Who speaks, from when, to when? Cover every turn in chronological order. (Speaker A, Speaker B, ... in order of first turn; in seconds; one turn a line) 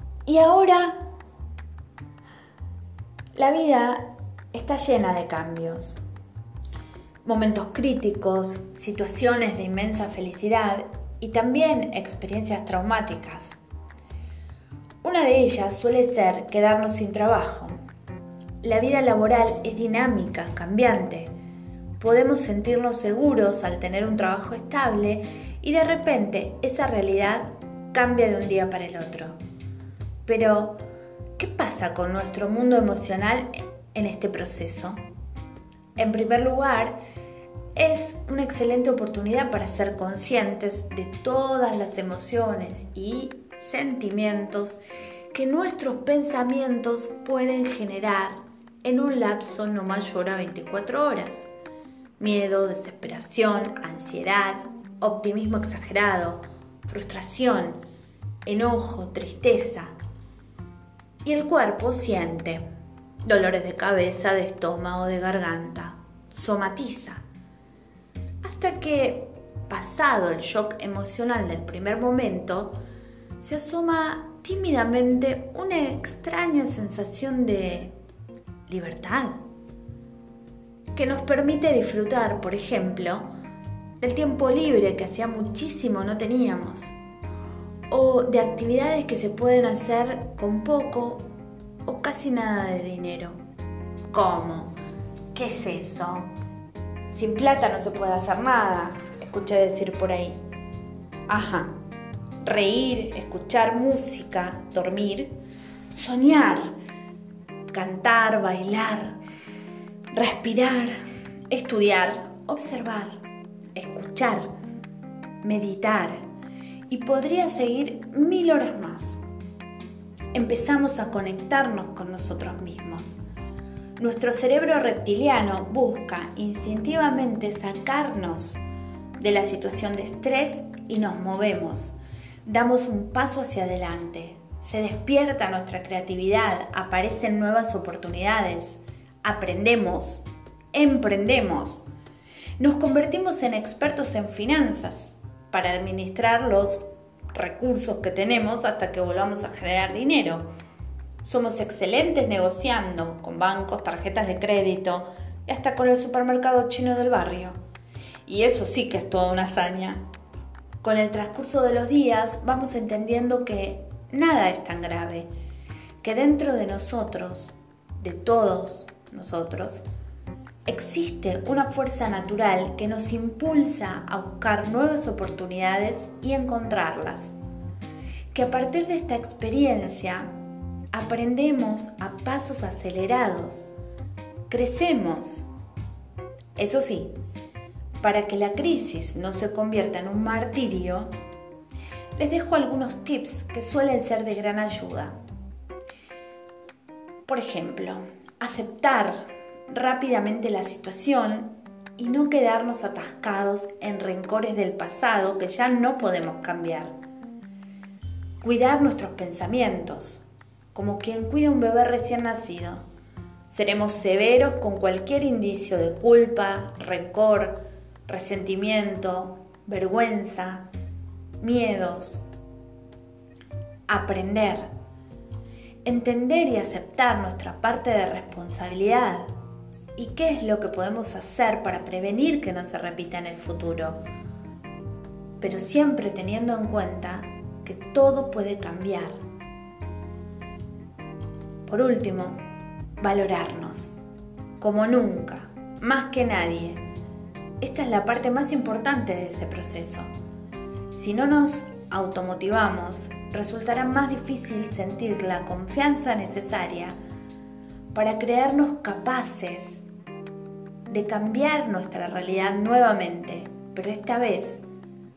Speaker A: 0.2-1.0
Speaker A: 3.3-6.0
Speaker A: 7.2-13.6
Speaker A: 15.0-17.8
Speaker A: 18.6-21.3
Speaker A: 22.0-29.4
Speaker A: 30.2-30.8
Speaker A: 31.4-35.0
Speaker A: 36.0-37.0
Speaker A: 37.7-44.8
Speaker A: 45.3-51.5
Speaker A: 52.2-57.8
Speaker A: 58.4-59.9
Speaker A: 61.2-62.6
Speaker A: 63.2-67.2
Speaker A: 68.4-72.7
Speaker A: 73.4-77.9
Speaker A: 78.7-79.4
Speaker A: 80.9-83.3
Speaker A: 84.0-86.9
Speaker A: 87.9-91.3
Speaker A: 91.8-93.4
Speaker A: 94.1-94.7
Speaker A: 95.3-96.3
Speaker A: 97.1-100.4
Speaker A: 101.3-101.7
Speaker A: 102.4-105.3
Speaker A: 105.9-106.7
Speaker A: 107.7-109.2
Speaker A: 110.1-111.0
Speaker A: 111.5-113.2
Speaker A: 113.7-114.5
Speaker A: 115.4-116.2
Speaker A: 116.9-119.2
Speaker A: 120.3-123.2
Speaker A: 124.0-128.6
Speaker A: 129.2-141.8
Speaker A: 142.6-146.8
Speaker A: 147.3-150.5
Speaker A: 151.2-157.6
Speaker A: 158.2-160.0
Speaker A: 160.8-165.3
Speaker A: 166.0-169.8
Speaker A: 170.7-177.3
Speaker A: 178.3-180.3
Speaker A: 180.9-183.7
Speaker A: 184.5-185.4
Speaker A: 186.6-187.1
Speaker A: 188.0-191.1
Speaker A: 192.1-195.2
Speaker A: 197.2-206.9
Speaker A: 208.4-210.2
Speaker A: 210.7-212.8
Speaker A: 213.5-220.7
Speaker A: 221.4-222.2
Speaker A: 223.9-224.7
Speaker A: 225.8-229.3
Speaker A: 229.9-234.0
Speaker A: 235.4-239.2
Speaker A: 241.7-242.4
Speaker A: 243.0-243.9
Speaker A: 244.6-246.8
Speaker A: 247.6-250.1
Speaker A: 250.9-257.0
Speaker A: 257.9-259.8
Speaker A: 260.9-264.6